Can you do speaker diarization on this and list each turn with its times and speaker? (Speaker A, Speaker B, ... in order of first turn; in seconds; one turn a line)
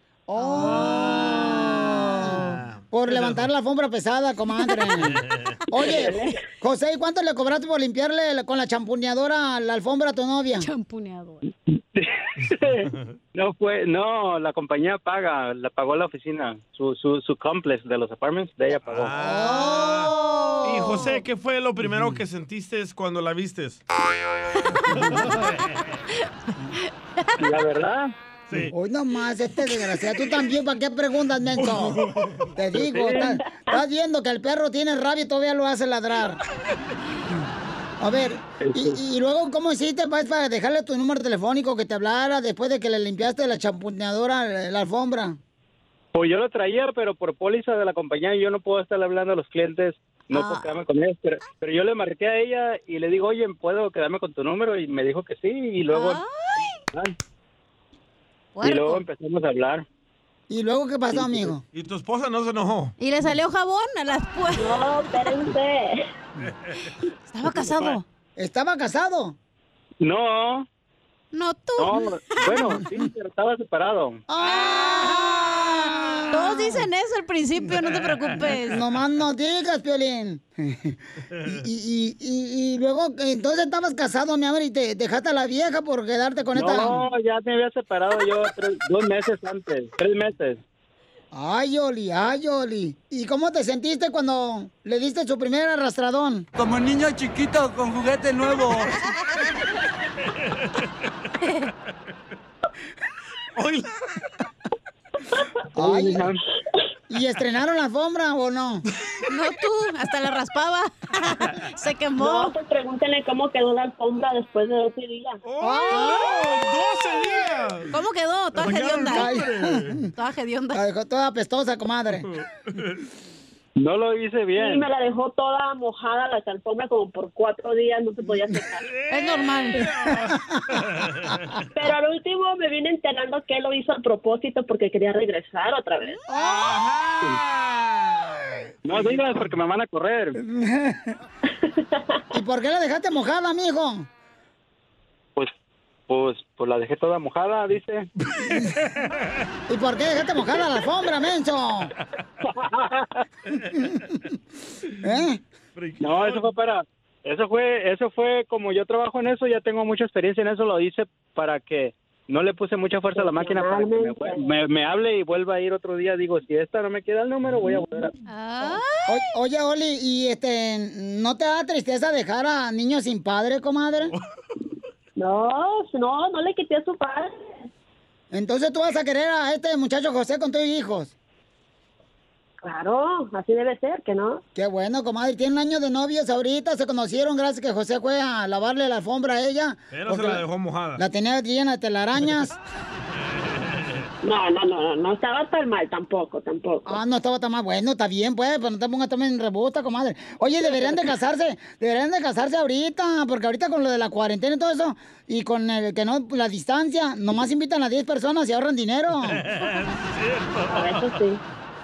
Speaker A: 0.3-10.7
Speaker B: 0.5-0.8
Speaker C: 0.7-1.1
Speaker C: 2.3-3.5
Speaker D: 5.9-6.4
Speaker B: 10.6-11.4
Speaker E: 11.9-19.1
Speaker C: 18.8-23.8
Speaker A: 19.2-20.9
Speaker B: 20.3-21.0
Speaker A: 21.9-22.2
Speaker B: 24.9-25.5
Speaker E: 27.4-28.1
Speaker A: 28.7-32.0
Speaker C: 31.6-32.5
Speaker A: 32.6-36.4
Speaker E: 32.7-33.3
Speaker D: 33.2-33.8
Speaker A: 38.0-45.4
Speaker E: 38.6-39.0
Speaker E: 46.1-56.2
Speaker B: 50.3-50.7
Speaker B: 55.9-56.2
Speaker B: 58.6-59.0
Speaker E: 58.6-59.9
Speaker A: 60.5-61.6
Speaker E: 61.1-61.5
Speaker C: 61.7-62.9
Speaker B: 63.0-64.8
Speaker D: 64.5-66.1
Speaker B: 67.3-68.0
Speaker E: 67.6-68.0
Speaker A: 68.4-69.4
Speaker E: 70.0-70.7
Speaker B: 71.3-72.6
Speaker E: 71.8-74.2
Speaker A: 74.3-76.9
Speaker B: 74.4-75.6
Speaker B: 76.3-78.8
Speaker A: 78.4-87.0
Speaker E: 86.5-90.6
Speaker A: 91.3-96.5
Speaker F: 96.6-99.0
Speaker C: 103.6-104.0
Speaker A: 105.8-106.3
Speaker E: 105.8-106.4
Speaker A: 107.1-108.8
Speaker B: 109.3-112.5
Speaker D: 112.2-115.4
Speaker C: 115.4-117.9
Speaker A: 115.6-116.5
Speaker B: 115.9-116.4
Speaker B: 117.9-119.4
Speaker C: 118.5-120.1
Speaker A: 119.1-120.1
Speaker B: 120.2-120.8
Speaker A: 120.7-122.3
Speaker C: 122.4-123.0
Speaker E: 123.8-124.9
Speaker D: 124.5-128.9
Speaker C: 128.9-130.3
Speaker B: 129.1-129.9
Speaker C: 131.0-131.4
Speaker D: 131.8-136.2
Speaker C: 136.6-137.5
Speaker E: 138.8-140.4
Speaker A: 140.4-141.2
Speaker D: 141.5-142.2
Speaker A: 142.3-144.1
Speaker E: 146.1-148.1
Speaker A: 148.5-148.7
Speaker A: 149.7-151.9
Speaker A: 155.0-155.4
Speaker C: 155.8-156.5
Speaker E: 156.0-168.1
Speaker D: 163.1-164.5
Speaker B: 168.3-169.3
Speaker A: 169.1-174.2
Speaker D: 175.2-177.3
Speaker A: 178.3-181.1
Speaker D: 182.6-184.4
Speaker A: 184.6-190.4
Speaker C: 189.9-191.0
Speaker A: 191.0-192.6
Speaker D: 194.2-197.0
Speaker A: 196.9-209.4
Speaker C: 209.4-211.2
Speaker D: 210.7-211.4